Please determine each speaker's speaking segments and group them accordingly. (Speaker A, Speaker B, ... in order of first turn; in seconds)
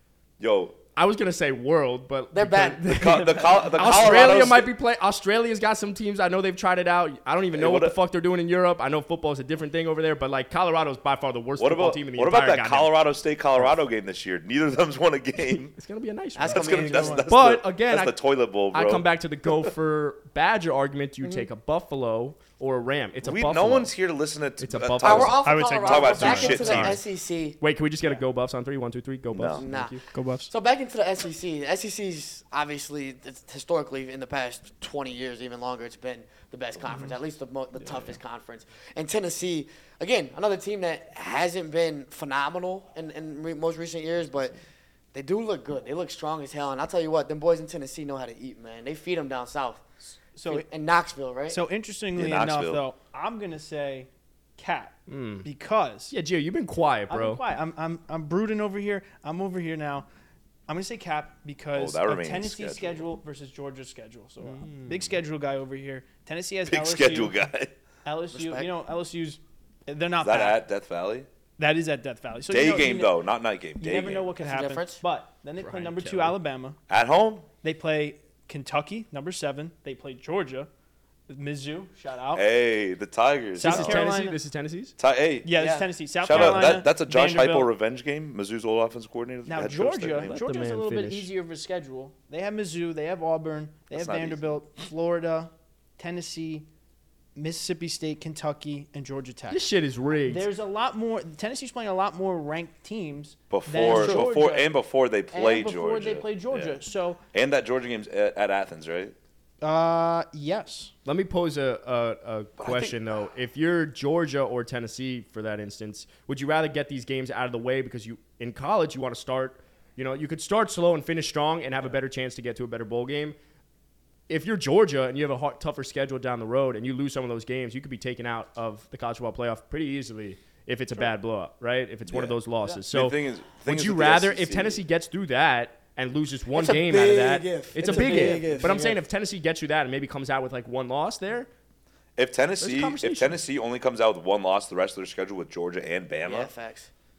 Speaker A: 0.4-0.8, 2.9-4.7, 7.5-8.0, 11.6-15.8, 16.4-19.7, 23.2-27.0, 29.3-29.6, 52.1-52.8, 61.7-63.0, 66.7-67.7, 70.2-71.3, 72.5-74.3, 76.9-77.5, 82.3-84.1, 85.0-85.6, 86.1-90.4, 93.9-94.5, 103.5-106.8, 107.3-109.2, 112.6-113.0, 132.1-132.4, 132.9-134.8, 142.2-146.5
Speaker B: 0.9-13.0, 15.4-18.2, 18.7-23.9, 24.6-25.4, 26.1-27.0, 27.6-30.2, 55.1-55.5, 56.1-57.4, 64.4-65.1, 75.6-76.4, 83.6-85.0, 86.3-86.7, 90.2-91.3, 99.5-100.5, 103.8-104.3, 111.1-123.4, 124.3-141.5, 142.6-143.4
Speaker C: 2.3-3.6, 16.4-17.3, 21.2-21.5, 25.0-27.6, 29.6-44.6, 45.1-49.8, 50.5-51.6, 68.3-68.7, 74.4-75.0, 85.6-85.9, 136.5-139.0, 146.2-146.9
Speaker D: 16.7-17.2, 25.4-26.9, 30.1-30.5, 50.3-50.7, 51.5-56.1, 57.1-60.1, 60.7-67.4, 68.0-70.6, 71.6-73.2, 73.8-76.8, 77.6-80.7, 81.3-82.5, 83.6-84.4, 85.4-87.7, 89.5-96.7, 97.3-99.7, 100.3-104.7, 105.3-107.2, 109.6-110.9, 137.8-138.8